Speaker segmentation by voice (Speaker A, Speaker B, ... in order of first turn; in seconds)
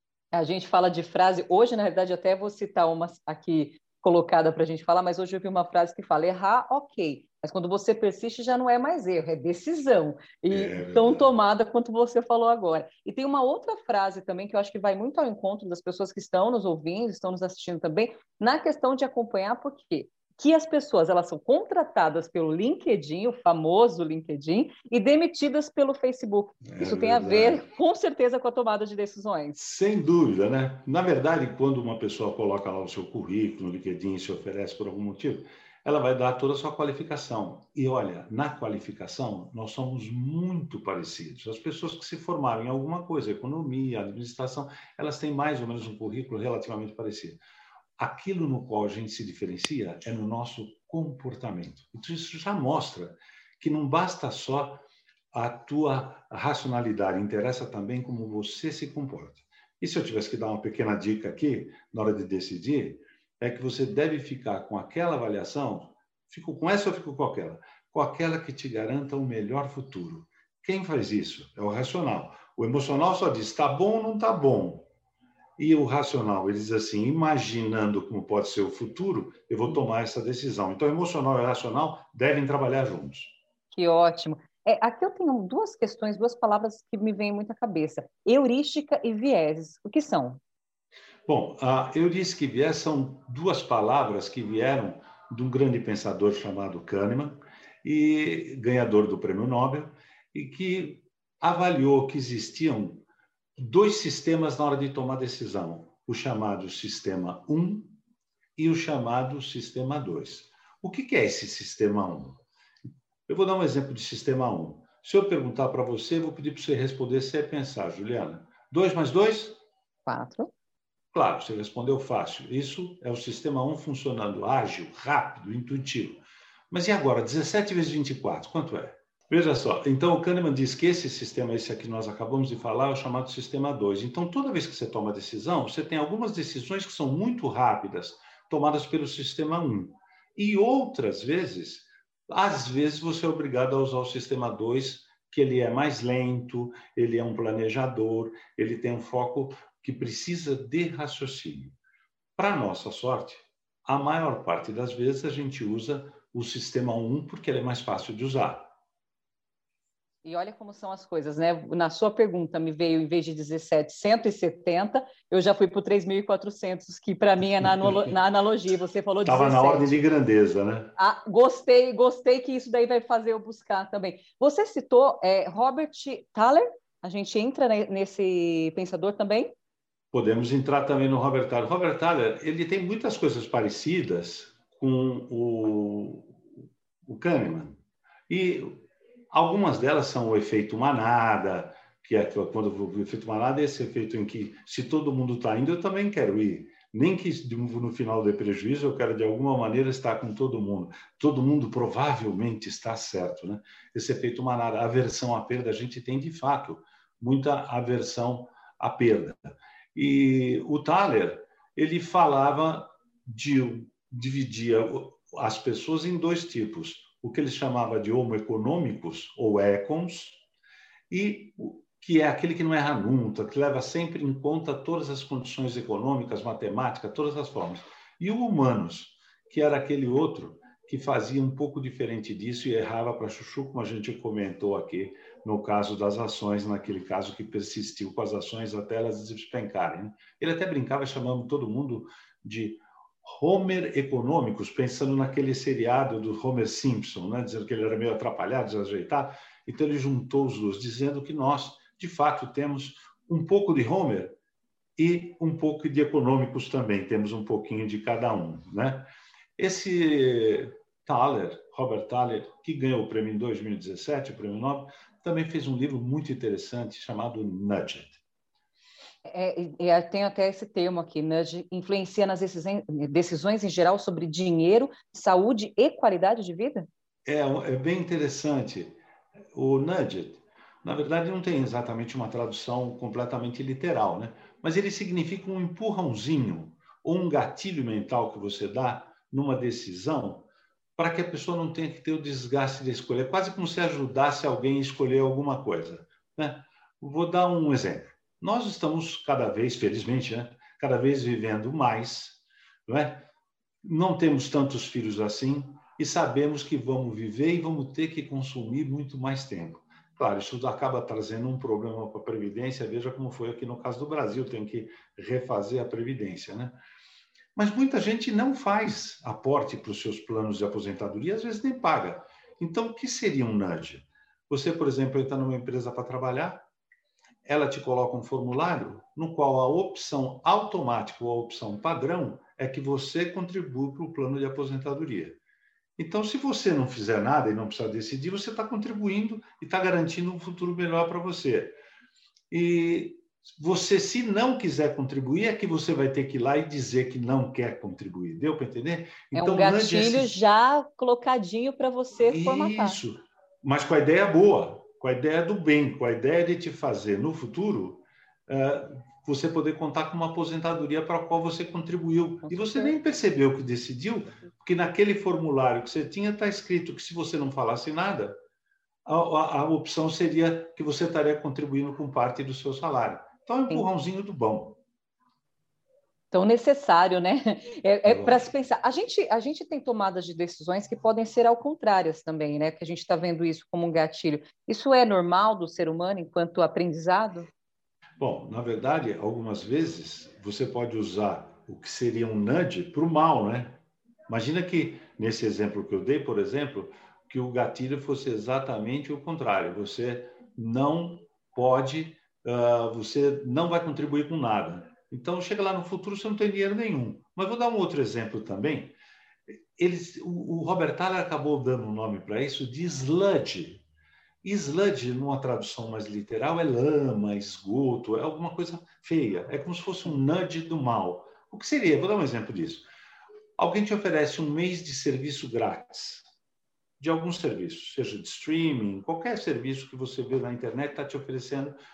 Speaker A: 0.3-29.6, 83.7-90.4, 120.1-120.5, 160.2-170.0, 171.0-179.5, 269.2-276.9, 349.3-353.0, 362.5-363.0, 376.3-387.5
Speaker B: 10.5-11.3, 26.6-27.7, 29.6-47.4, 48.0-74.9, 75.6-83.3, 91.3-103.0, 103.6-108.0, 108.6-112.4, 113.3-119.6, 121.1-151.8, 152.4-158.7, 167.6-168.2, 169.2-170.9, 180.1-186.4, 187.1-187.8, 188.3-220.4, 221.1-254.4, 255.0-268.2, 277.3-279.0, 279.5-303.3, 303.8-316.8, 317.6-326.7, 327.4-335.4, 336.0-341.8, 342.5-350.4, 352.2-368.4, 369.1-374.8, 378.1-378.5, 388.2-409.0, 409.8-413.8, 414.4-422.9, 423.6-426.2, 427.0-431.8